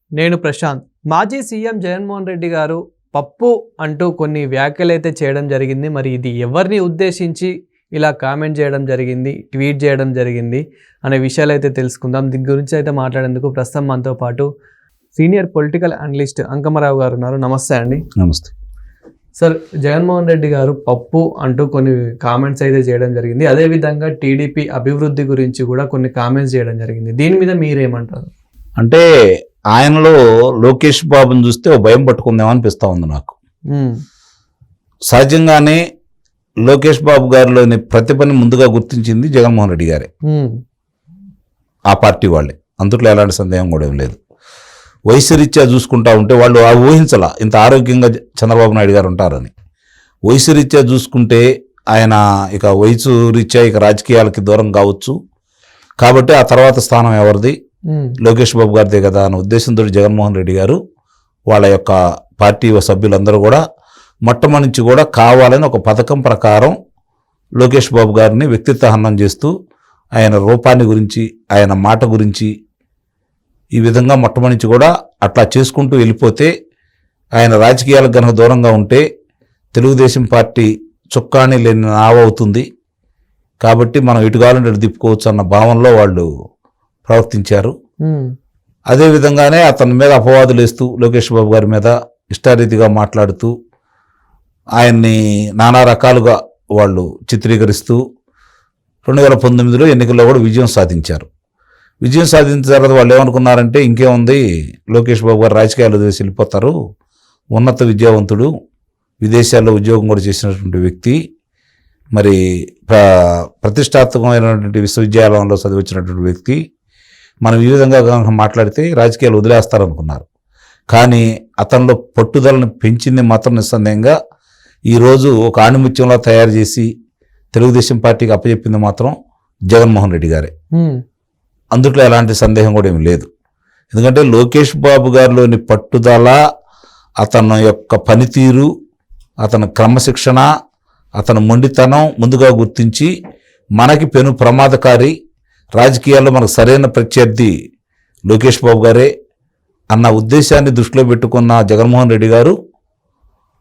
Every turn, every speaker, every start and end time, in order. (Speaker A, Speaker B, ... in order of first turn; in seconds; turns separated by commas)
Speaker A: 0.2-14.5, Speaker A: 15.1-18.0, Speaker B: 18.2-18.5, Speaker A: 19.4-28.3, Speaker B: 28.8-29.0, Speaker B: 29.7-33.3, Speaker A: 33.7-34.0, Speaker B: 35.1-35.8, Speaker B: 36.6-40.1, Speaker A: 40.3-40.5, Speaker B: 41.9-44.2, Speaker B: 45.1-49.5, Speaker B: 50.3-55.1, Speaker B: 56.0-57.5, Speaker A: 57.9-58.2, Speaker B: 58.2-60.8, Speaker B: 61.5-63.6, Speaker B: 64.2-66.7, Speaker B: 67.6-69.5, Speaker B: 70.2-72.5, Speaker B: 73.8-76.5, Speaker B: 77.4-79.0, Speaker B: 79.7-82.6, Speaker B: 83.6-86.2, Speaker B: 87.1-87.7, Speaker A: 88.0-88.3, Speaker B: 88.9-93.5, Speaker B: 94.8-98.0, Speaker B: 99.0-101.3, Speaker B: 102.0-106.7, Speaker B: 107.5-108.5, Speaker B: 109.2-111.2, Speaker B: 112.1-113.0, Speaker B: 113.6-116.6, Speaker B: 117.4-120.2, Speaker B: 120.9-124.2, Speaker B: 124.9-126.9, Speaker B: 127.5-129.1, Speaker B: 129.7-130.5, Speaker A: 130.7-131.0, Speaker B: 131.7-133.3, Speaker B: 133.9-136.4, Speaker B: 137.2-138.7, Speaker B: 139.4-140.5, Speaker B: 141.2-143.1, Speaker B: 143.8-145.1, Speaker B: 145.8-147.5, Speaker B: 148.3-149.1, Speaker B: 149.9-152.5